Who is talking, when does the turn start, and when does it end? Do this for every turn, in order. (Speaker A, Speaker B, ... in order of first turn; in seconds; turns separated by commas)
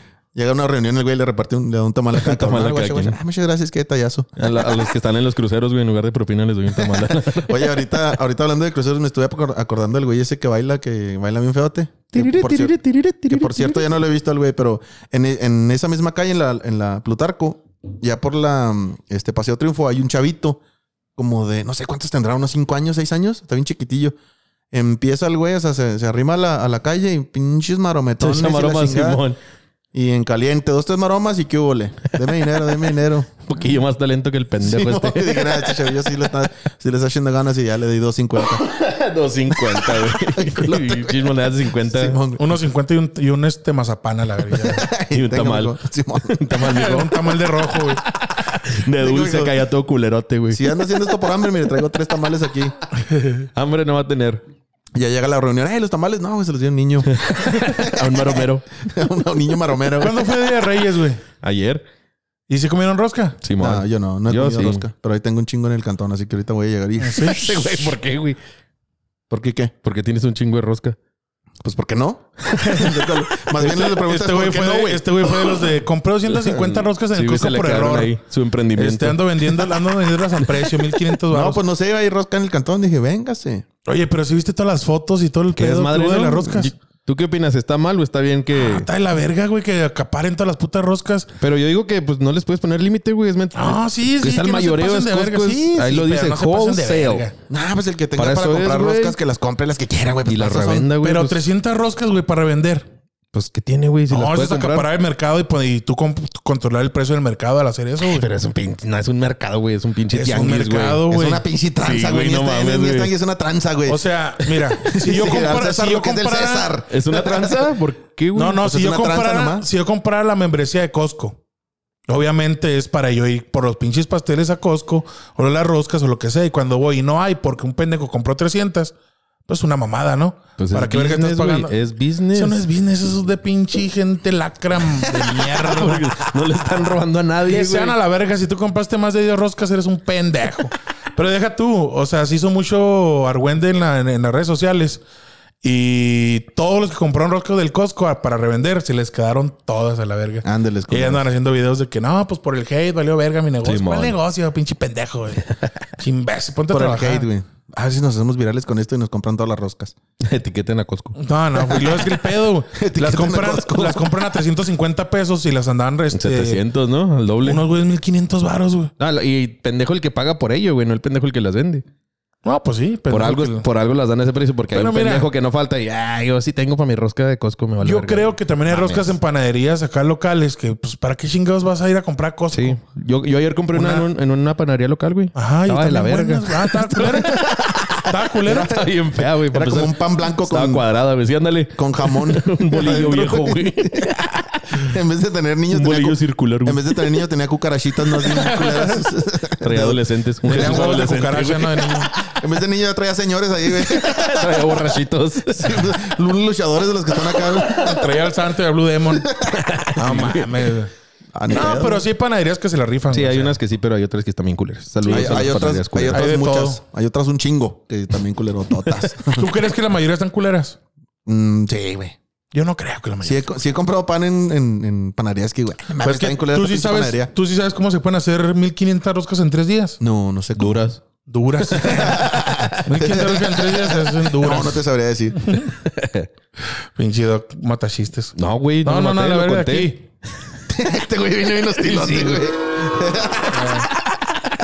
Speaker A: 0.3-4.8, Speaker B: 2.1-3.2, Speaker B: 4.4-7.7, Speaker A: 6.8-12.8, Speaker B: 12.1-13.9, Speaker A: 13.3-20.6, Speaker A: 21.2-24.1, Speaker A: 24.7-29.2, Speaker B: 28.2-29.4, Speaker A: 29.9-33.3, Speaker B: 33.5-35.9, Speaker A: 34.6-38.7, Speaker B: 38.6-42.2, Speaker A: 39.5-41.3, Speaker A: 41.9-42.6, Speaker C: 42.4-44.9, Speaker A: 44.6-46.4, Speaker B: 45.1-47.4, Speaker C: 46.6-48.0, Speaker B: 48.3-50.7, Speaker A: 49.0-49.5, Speaker A: 50.5-52.8, Speaker C: 53.0-53.5, Speaker B: 53.5-54.4, Speaker A: 55.0-60.3, Speaker B: 57.1-58.7, Speaker C: 60.0-61.2, Speaker B: 61.4-61.8, Speaker C: 62.5-63.4, Speaker B: 63.4-64.8, Speaker A: 63.6-67.9, Speaker C: 67.0-67.5, Speaker B: 67.2-68.4, Speaker A: 69.3-69.7, Speaker B: 69.8-71.0, Speaker A: 71.6-75.4, Speaker B: 72.6-72.9, Speaker C: 72.6-73.0, Speaker C: 73.7-78.1, Speaker B: 76.3-79.8, Speaker C: 78.8-81.6, Speaker B: 80.4-81.2, Speaker A: 81.3-83.7, Speaker C: 83.9-86.7, Speaker B: 85.5-88.9, Speaker C: 88.5-91.3, Speaker B: 91.4-97.3, Speaker C: 93.5-97.3, Speaker A: 97.5-100.9, Speaker B: 98.2-99.2, Speaker B: 100.3-101.4, Speaker C: 101.0-102.9, Speaker B: 103.3-104.9, Speaker C: 104.1-108.3, Speaker B: 108.0-111.1, Speaker C: 110.1-111.4, Speaker A: 111.1-117.7, Speaker B: 111.8-113.1, Speaker C: 113.9-116.7, Speaker B: 116.9-118.6, Speaker C: 118.3-121.4, Speaker A: 118.6-119.7, Speaker C: 122.1-128.9, Speaker C: 129.5-131.7, Speaker B: 130.6-132.6, Speaker C: 132.3-136.3, Speaker B: 135.4-137.9, Speaker C: 137.5-145.0, Speaker C: 145.6-155.5, Speaker A: 150.4-151.2, Speaker B: 153.6-154.2, Speaker C: 156.0-157.3, Speaker A: 156.7-159.9, Speaker B: 160.2-161.2, Speaker C: 161.2-166.6, Speaker A: 161.7-162.0, Speaker A: 162.7-164.0, Speaker B: 166.1-167.6, Speaker C: 167.4-168.9, Speaker B: 169.0-171.8, Speaker C: 172.4-173.7, Speaker B: 173.1-179.1, Speaker C: 174.7-175.3, Speaker C: 177.8-182.8, Speaker B: 182.5-194.8, Speaker C: 183.7-184.1, Speaker C: 185.3-188.8, Speaker A: 188.4-190.8, Speaker A: 191.8-194.2, Speaker A: 194.7-201.0, Speaker B: 195.7-197.1, Speaker C: 198.3-199.0, Speaker B: 199.6-202.2, Speaker C: 200.5-202.1, Speaker A: 202.2-205.0, Speaker B: 203.8-206.0, Speaker A: 205.5-208.1, Speaker B: 207.3-207.9, Speaker C: 207.7-209.3, Speaker A: 209.2-209.7, Speaker B: 209.4-210.7, Speaker C: 209.9-210.9, Speaker A: 211.3-212.0, Speaker C: 211.5-213.6, Speaker B: 213.1-216.2, Speaker C: 215.1-215.5, Speaker A: 215.1-219.5, Speaker C: 216.1-216.8, Speaker C: 219.3-220.8, Speaker A: 221.3-222.2, Speaker C: 222.5-223.5, Speaker A: 223.2-227.3, Speaker C: 226.0-230.0, Speaker A: 230.0-230.8, Speaker B: 230.6-231.0, Speaker C: 231.3-232.2, Speaker B: 231.6-232.8, Speaker A: 231.8-235.4, Speaker C: 232.8-234.8, Speaker C: 235.4-235.7, Speaker B: 235.7-236.3, Speaker C: 237.0-240.0, Speaker B: 238.4-239.9, Speaker A: 240.7-244.2, Speaker B: 241.8-242.5, Speaker C: 243.5-243.9